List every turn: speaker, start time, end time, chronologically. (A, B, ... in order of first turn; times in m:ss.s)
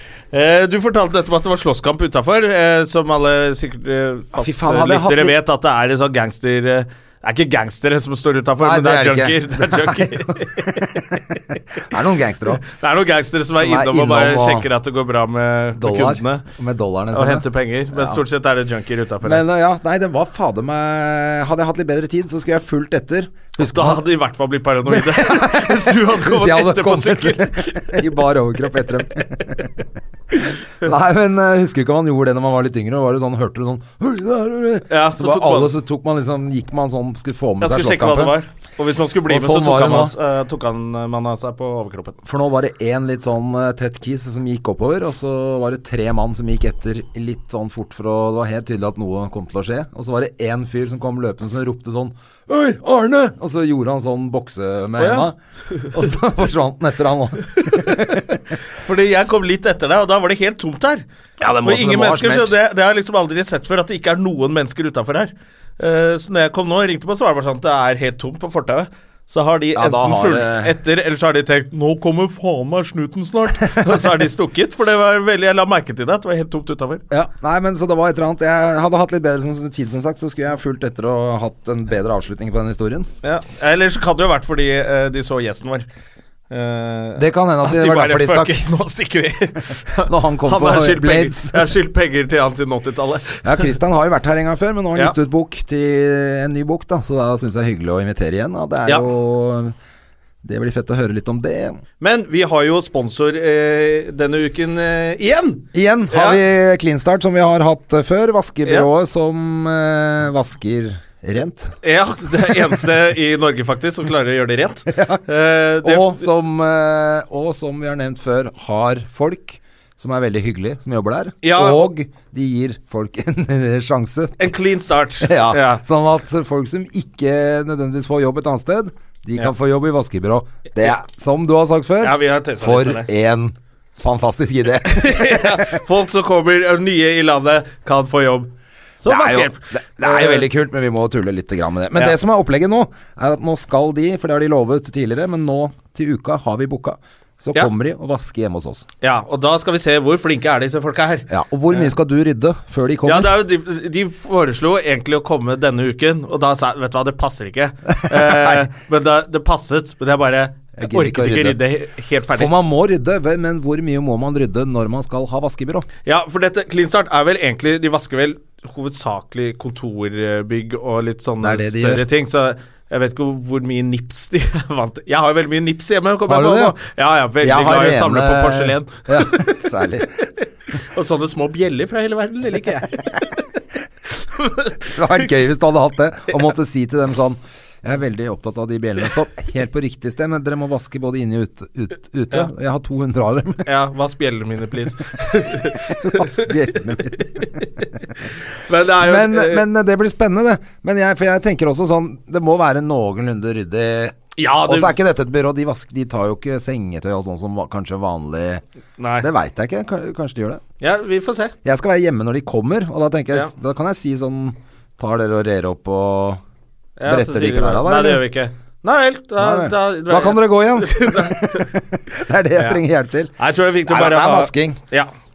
0:00.3-0:11.4 A
0:04.4-0:05.4 B
0:08.6-0:11.2 B
0:11.8-0:12.6 B
0:12.6-0:16.4 A
0:13.6-0:14.7 B
0:15.8-0:18.2 B
0:17.1-0:19.4 A
0:19.2-0:24.0 B
0:23.6-0:28.1 A
0:24.9-0:29.8 B
0:30.8-0:38.4 B
0:34.9-0:35.7 A
0:37.6-0:42.2 A
0:39.3-0:40.2 B
0:42.2-0:55.4 B
0:55.0-0:55.9 A
0:55.9-0:58.4 B
0:57.6-1:01.0 A
1:01.4-1:02.6 B
1:01.6-1:17.0 A
1:09.7-1:10.8 B
1:13.7-1:14.1 B
1:17.1-1:23.1 B
1:23.2-1:25.9 A
1:26.5-1:33.7 A
1:27.2-1:28.7 B
1:30.1-1:31.7 B
1:33.4-1:39.7 B
1:40.4-1:41.8 B
1:42.0-1:46.4 A
1:45.7-1:51.8 B
1:51.8-1:56.2 A
1:54.9-1:55.2 B
1:55.8-2:04.5 B
2:01.4-2:01.9 A
2:04.4-2:05.8 A
2:05.2-2:15.8 B
2:12.0-2:13.1 A
2:14.9-2:20.5 A
2:19.1-2:28.9 B
2:29.0-2:31.9 A
2:31.3-2:33.4 B
2:33.0-2:42.5 A
2:38.0-2:38.7 B
2:40.8-2:41.6 B
2:42.3-2:45.9 B
2:46.0-2:59.7 A
2:51.4-2:52.0 B
2:56.3-2:56.8 B
2:57.4-3:00.3 B
3:00.8-3:03.4 A
3:04.1-3:05.0 A
3:04.8-3:13.7 B
3:13.7-3:17.9 A
3:15.6-3:17.6 B
3:18.4-3:19.6 A
3:19.0-3:28.6 B
3:24.4-3:25.0 A
3:29.0-3:29.3 A
3:29.2-3:30.6 B
3:30.8-3:31.5 A
3:31.6-3:36.4 B
3:37.0-3:41.7 A
3:37.1-3:38.2 B
3:39.4-3:43.3 B
3:42.6-3:42.8 A
3:43.4-3:45.1 A
3:43.9-3:44.8 B